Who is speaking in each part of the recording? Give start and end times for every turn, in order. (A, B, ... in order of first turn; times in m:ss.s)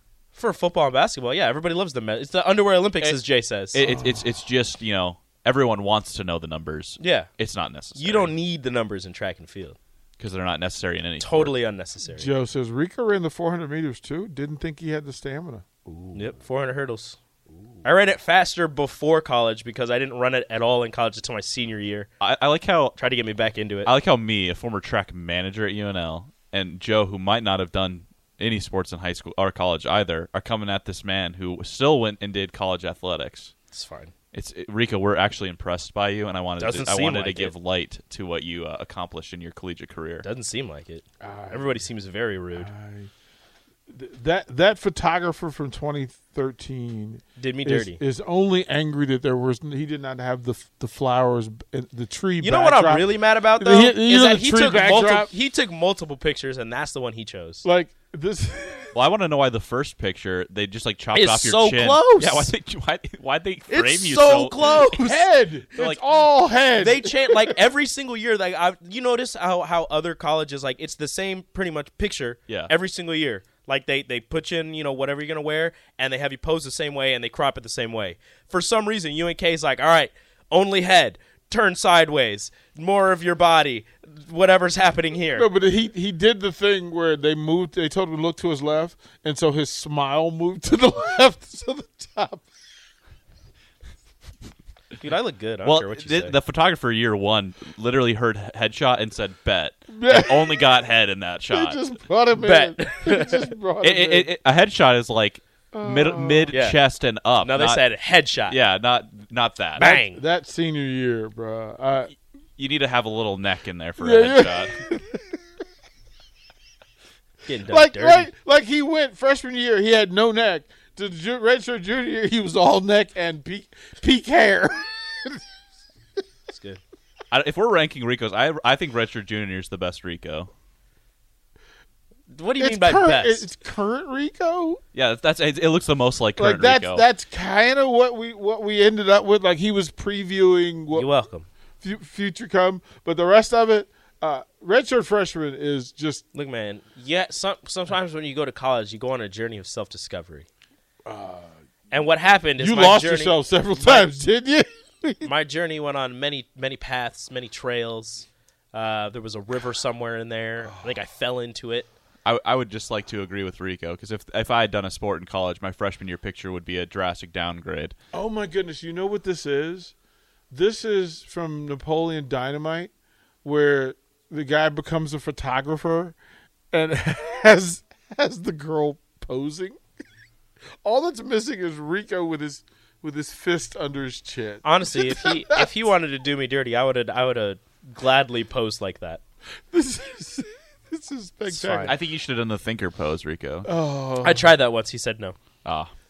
0:00.3-0:03.8 A
0:03.7-0:08.3 B
0:03.8-0:04.2 C
0:07.0-0:07.3 A
0:08.0-0:09.8 A
0:10.2-0:11.6 B
0:11.2-0:12.3 A
0:12.1-0:16.2 C
0:15.9-0:17.2 A
0:17.8-0:22.1 A
0:22.2-0:23.0 B
0:23.0-0:23.9 A
0:23.8-0:33.5 B
0:33.7-0:34.1 A
0:34.3-0:40.2 B
0:36.6-0:37.5 A
0:40.2-0:42.7 A
0:41.2-0:41.8 C
0:42.5-0:43.1 C
0:43.9-0:55.3 C
0:47.4-0:48.0 A
0:52.4-0:57.6 A
0:57.6-0:58.9 C
0:58.9-1:04.8 B
1:01.1-1:02.5 A
1:03.7-1:05.2 A
1:04.9-1:07.6 C
1:05.8-1:06.0 B
1:06.8-1:25.5 A
1:25.3-1:32.5 C
1:35.0-1:36.4 A
1:35.6-1:41.8 B
1:39.9-1:40.7 C
1:41.5-1:44.3 C
1:42.4-1:43.5 A
1:43.8-1:47.8 B
1:45.7-1:46.6 C
1:46.5-1:46.8 A
1:47.4-1:48.6 A
1:48.5-1:49.9 B
1:49.8-1:50.2 A
1:49.8-1:52.1 C
1:52.6-1:54.8 B
1:54.0-1:55.4 C
1:57.4-1:58.3 A
1:57.7-2:05.4 C
2:06.5-2:06.8 A
2:07.3-2:10.5 B
2:12.3-2:13.4 A
2:12.6-2:14.8 C
2:14.9-2:17.0 B
2:16.4-2:21.1 C
2:20.9-2:21.5 A
2:21.8-2:26.2 C
2:26.3-2:30.5 A
2:31.0-2:31.6 C
2:31.9-2:34.1 A
2:32.6-2:35.3 C
2:35.2-2:41.9 A
2:40.6-2:41.0 C
2:42.2-2:48.0 B
2:48.1-2:49.9 C
2:50.5-2:52.9 C
2:53.4-2:56.2 C
2:56.7-2:59.8 C
3:00.8-3:05.7 C
3:04.6-3:09.2 A
3:09.7-3:11.9 C
3:11.5-3:11.9 A
3:11.8-3:13.7 B
3:13.6-3:14.5 C
3:14.2-3:15.4 A
3:15.6-3:15.9 B